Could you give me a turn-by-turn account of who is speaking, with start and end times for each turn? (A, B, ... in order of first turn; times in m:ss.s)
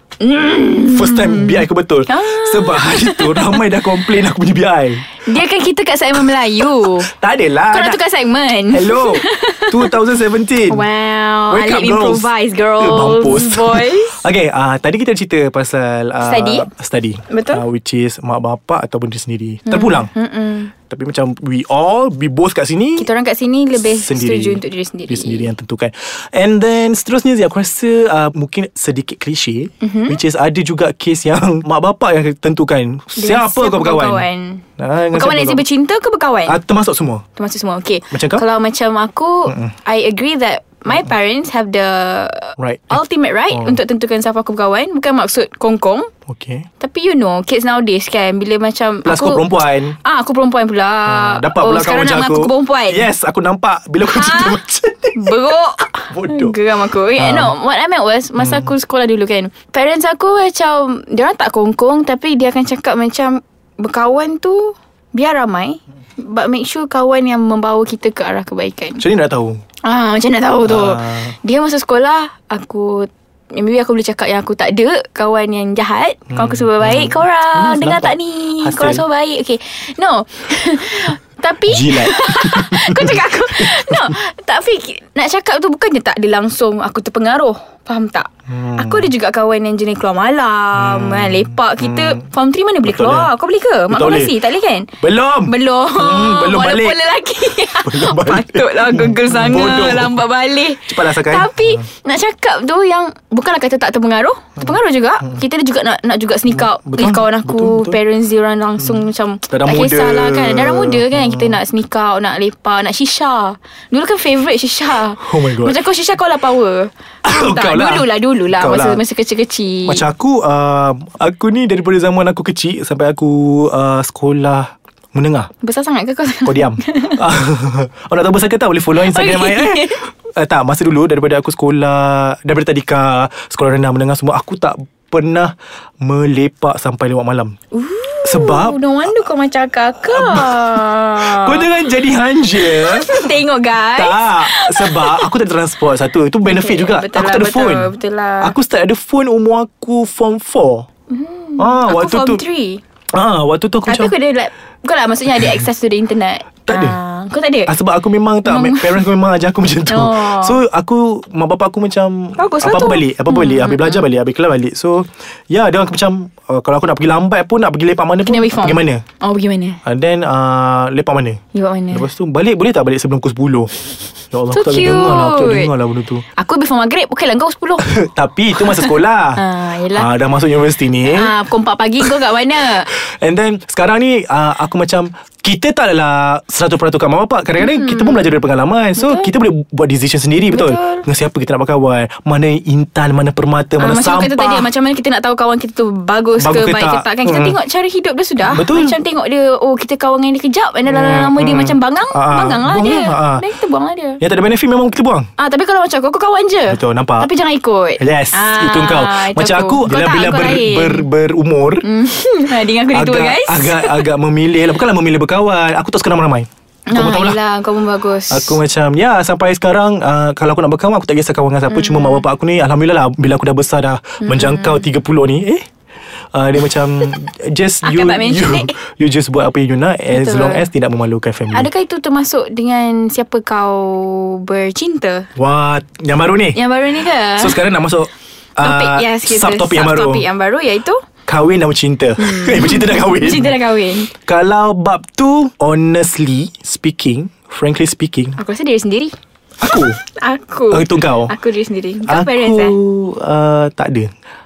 0:00.2-0:03.7 A
0:00.8-0:05.2 B
0:05.2-0:07.1 A
0:06.8-0:08.0 B
0:07.7-0:10.0 A
0:08.7-0:10.9 B
0:10.7-0:14.2 A
0:11.5-0:20.1 B
0:16.2-0:16.7 A
0:17.3-0:17.6 A
0:19.7-0:20.7 A
0:20.9-0:23.1 B
0:23.0-0:25.5 A
0:23.8-0:34.2 B
0:29.8-0:30.2 A
0:33.2-0:36.6 A
0:34.8-0:35.6 B
0:36.5-0:37.2 B
0:37.4-0:46.1 A
0:38.1-0:38.4 B
0:39.4-0:39.7 B
0:42.6-0:43.8 B
0:46.3-0:46.6 B
0:46.8-0:53.1 A
0:49.0-0:50.0 B
0:51.0-0:55.5 B
0:54.0-0:54.6 A
0:55.2-1:09.0 A
0:56.1-0:56.6 B
0:57.2-0:57.5 B
0:58.4-0:58.7 B
1:09.0-1:09.6 B
1:09.8-1:34.9 A
1:10.6-1:11.4 B
1:16.3-1:19.0 B
1:21.6-1:24.1 B
1:28.5-1:29.1 B
1:30.7-1:32.3 B
1:32.8-1:33.3 B
1:33.9-1:34.4 B
1:35.0-1:37.0 B
1:35.4-2:00.0 A
1:37.6-1:40.2 B
1:40.8-1:41.8 B
1:46.5-1:48.0 B
1:48.8-1:51.6 B
1:55.2-1:55.8 B
1:57.2-1:59.0 B
1:59.8-2:05.5 B
2:05.6-2:07.2 A
2:06.4-2:17.5 B
2:09.0-2:10.0 A
2:17.7-2:21.7 A
2:18.2-2:19.3 B
2:20.0-2:23.4 B
2:22.5-2:25.3 A
2:23.9-2:30.9 B
2:26.4-2:28.6 A
2:31.1-2:32.8 A
2:31.6-2:32.4 B
2:33.1-2:34.1 B
2:33.8-2:37.7 A
2:36.7-2:37.0 B
2:37.7-2:49.0 B
2:38.4-2:39.0 A
2:39.9-2:40.6 A
2:42.4-2:44.0 A
2:48.2-2:49.8 A
2:49.8-2:51.4 B
2:51.5-2:52.1 A
2:51.9-2:53.8 B
2:54.3-2:56.2 B
2:54.5-2:55.7 A
2:56.4-2:57.9 A
2:57.8-3:01.3 B
2:58.5-3:00.1 A
3:01.0-3:02.9 A
3:02.9-3:14.7 B
3:07.6-3:08.4 A
3:09.0-3:09.3 A
3:10.5-3:11.0 A
3:13.8-3:24.2 A
3:16.4-3:17.6 B
3:18.4-3:19.0 B
3:20.8-3:23.4 B
3:24.2-3:25.3 B
3:25.4-3:31.0 A
3:26.7-3:27.3 B
3:28.0-3:31.9 B
3:31.8-3:34.1 A
3:32.9-3:37.4 B
3:36.9-3:38.6 A
3:38.3-3:45.6 B
3:41.7-3:42.2 A
3:44.2-3:44.8 A
3:46.3-3:51.7 B
3:47.8-3:48.8 A
3:50.1-3:50.7 A
3:51.5-3:55.3 A
3:55.4-3:56.6 B
3:56.5-3:57.6 A
3:57.2-4:00.3 B
3:58.6-4:01.0 A
4:01.3-4:03.6 B
4:02.2-4:04.1 A
4:04.1-4:08.4 B
4:08.4-4:09.1 A
4:09.6-4:10.0 B
4:09.8-4:12.8 A
4:10.7-4:11.3 B
4:12.1-4:14.1 B